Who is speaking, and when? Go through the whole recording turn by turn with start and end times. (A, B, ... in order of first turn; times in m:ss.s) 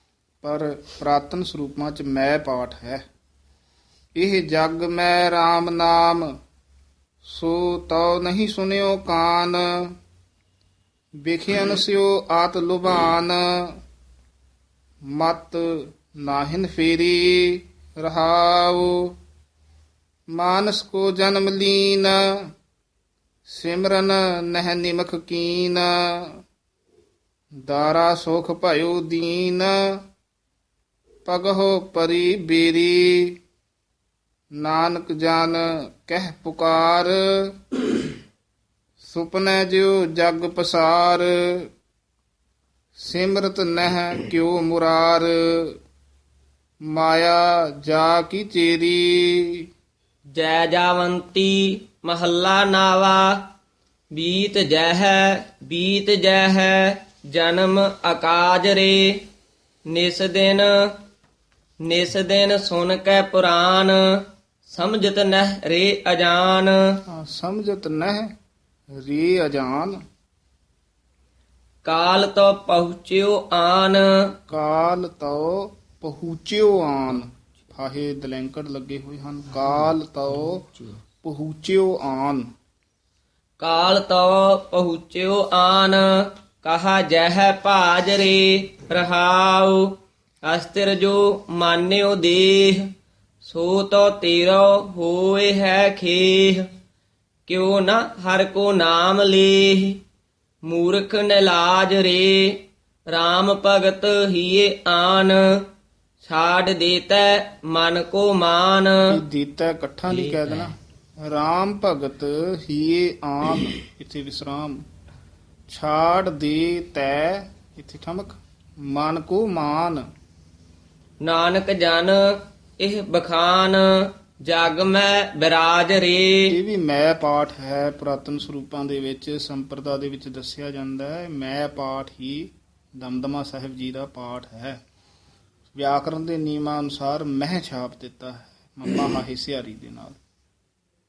0:00.4-0:03.0 A
0:04.2-0:06.3 A
0:07.2-0:10.0 A
0:11.2-0:13.8 A
0:15.1-0:19.1 A
0:20.3-0:22.4 A
0:23.5-0:26.4 A
0:27.6-0:30.0 A
0:31.3-0:33.4 A
0:34.6-0:37.6 A
0:39.0-0:41.7 A
0:43.0-0:45.8 A
0:46.9-0:49.6 A
0:50.3-0:53.4 B
0:54.1-0:59.2 B
0:59.9-1:00.9 B
1:01.8-1:06.8 B
1:07.1-1:08.3 A
1:09.0-1:10.0 A
1:11.8-1:14.0 B
1:14.5-1:22.4 A
1:23.6-1:29.9 B
1:30.4-1:32.9 B
1:33.4-1:36.6 B
1:37.5-1:40.0 B
1:40.6-1:45.6 B
1:46.2-1:49.0 B
1:49.1-1:50.7 A
1:51.2-1:54.8 A
1:55.7-2:00.0 A
2:01.2-2:06.5 B
2:06.5-2:14.8 A
2:15.7-2:20.2 A